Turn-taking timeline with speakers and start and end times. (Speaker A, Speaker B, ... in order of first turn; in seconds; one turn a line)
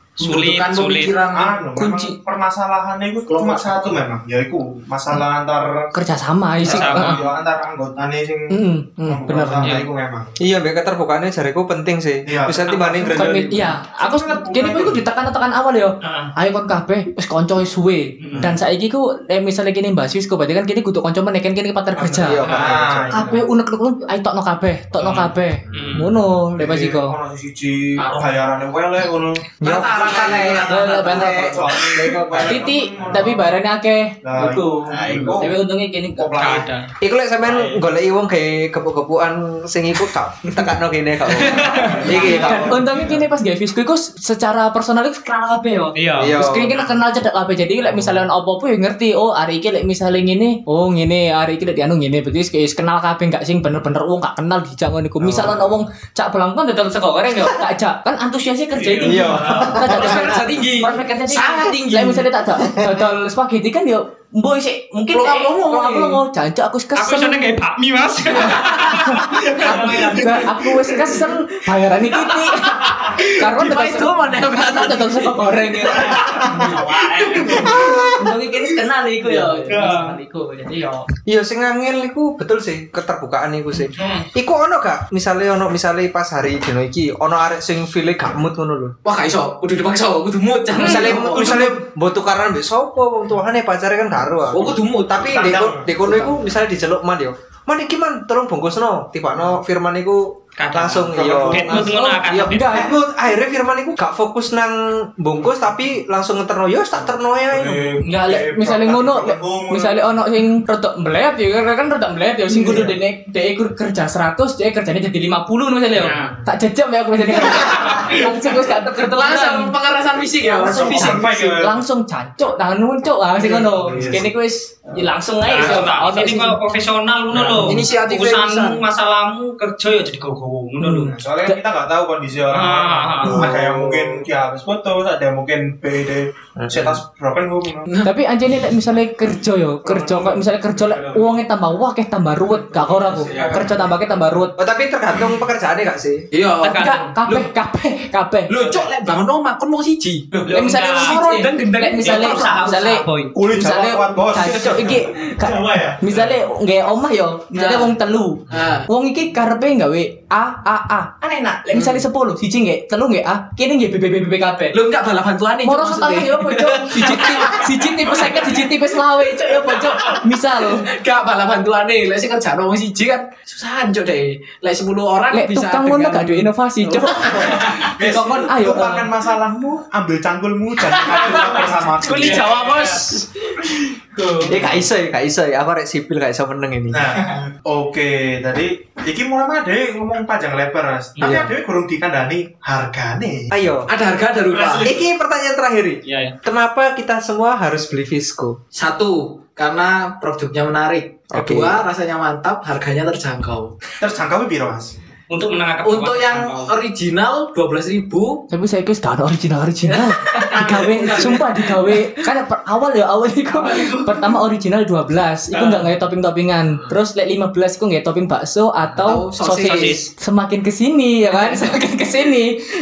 Speaker A: 0.2-1.2
Speaker B: 0.2-1.6
Speaker C: 1.3-5.9
Speaker D: 1.8-2.1
Speaker B: 3.3-3.9
Speaker D: 5.9-7.2
Speaker A: 6.6-7.3
Speaker C: 6.6-10.4
Speaker D: 8.5-9.8
Speaker A: 9.6-9.9
Speaker E: 10.4-13.7
Speaker C: 12.3-15.0
Speaker D: 13.1-22.5
Speaker A: 16.0-16.3
Speaker E: 18.3-18.6
Speaker C: 22.0-23.4
Speaker E: 22.2-23.2
Speaker D: 23.1-27.1
Speaker A: 25.0-26.1
Speaker C: 26.5-33.6
Speaker B: 28.0-28.2
Speaker D: 29.6-30.1
Speaker B: 29.6-32.1
Speaker E: 30.0-32.7
Speaker D: 30.6-31.5
Speaker D: 32.4-36.4
Speaker C: 34.2-35.6
Speaker B: 34.9-35.3
Speaker A: 35.0-35.3
Speaker C: 36.1-36.7
Speaker A: 36.4-36.8
Speaker E: 37.0-42.8
Speaker A: 41.4-42.3
Speaker C: 41.9-42.9
Speaker D: 42.1-67.5
Speaker A: 46.0-46.4
Speaker E: 46.2-46.8
Speaker E: 55.2-55.8
Speaker C: 59.0-59.7
Speaker E: 59.0-60.2
Speaker A: 59.2-59.5
Speaker B: 59.7-62.9
Speaker B: 65.1-66.2
Speaker A: 66.9-70.8
Speaker D: 68.3-76.7
Speaker B: 73.2-77.9
Speaker A: 75.9-77.7
Speaker D: 77.5-81.0
Speaker B: 79.1-80.0
Speaker A: 79.7-80.2
Speaker E: 81.3-89.0
Speaker A: 84.0-84.3
Speaker B: 89.0-91.7
Speaker D: 90.7-91.6
Speaker E: 90.8-107.9
Speaker B: 94.5-96.4
Speaker C: 94.6-95.9
Speaker A: 100.6-102.9
Speaker C: 101.1-101.9
Speaker D: 101.9-102.9
Speaker C: 107.4-110.1
Speaker D: 108.0-119.7
Speaker B: 112.6-112.9
Speaker A: 116.0-116.4
Speaker B: 117.5-121.2
Speaker A: 117.7-118.2
Speaker D: 120.5-126.6
Speaker C: 120.6-121.8
Speaker C: 123.4-124.3
Speaker A: 125.5-131.2
Speaker E: 127.3-127.8
Speaker B: 127.5-128.8
Speaker D: 130.8-131.6
Speaker C: 131.1-137.9
Speaker A: 132.5-133.5
Speaker E: 133.2-134.2
Speaker E: 136.6-137.0
Speaker D: 138.0-144.6
Speaker C: 139.8-141.3
Speaker E: 143.1-143.5
Speaker B: 143.1-143.8
Speaker C: 143.1-143.6
Speaker E: 144.6-146.2
Speaker B: 146.3-147.5
Speaker A: 146.6-147.1
Speaker D: 146.8-148.7
Speaker B: 148.5-152.7
Speaker A: 150.3-151.2
Speaker D: 150.5-164.8
Speaker A: 151.9-153.3
Speaker C: 153.3-155.1
Speaker B: 157.5-157.9
Speaker B: 158.5-158.9
Speaker B: 161.7-162.1
Speaker B: 164.7-177.9
Speaker D: 165.6-170.9
Speaker D: 175.3-179.1
Speaker C: 177.7-182.6
Speaker B: 180.9-184.7
Speaker A: 182.0-183.2
Speaker E: 184.5-187.1
Speaker C: 186.9-193.5
Speaker E: 191.2-191.5
Speaker E: 193.5-193.9
Speaker B: 193.9-194.9
Speaker A: 194.5-195.0
Speaker E: 194.8-198.6
Speaker A: 196.0-196.3
Speaker B: 198.7-203.8
Speaker E: 201.3-201.8
Speaker C: 204.0-204.9
Speaker A: 205.3-206.8
Speaker B: 205.8-208.4
Speaker D: 208.5-222.6
Speaker B: 209.8-212.1
Speaker C: 210.5-211.4
Speaker B: 213.5-214.3
Speaker A: 215.5-215.8
Speaker B: 219.0-220.0
Speaker A: 219.6-220.1
Speaker B: 221.3-221.8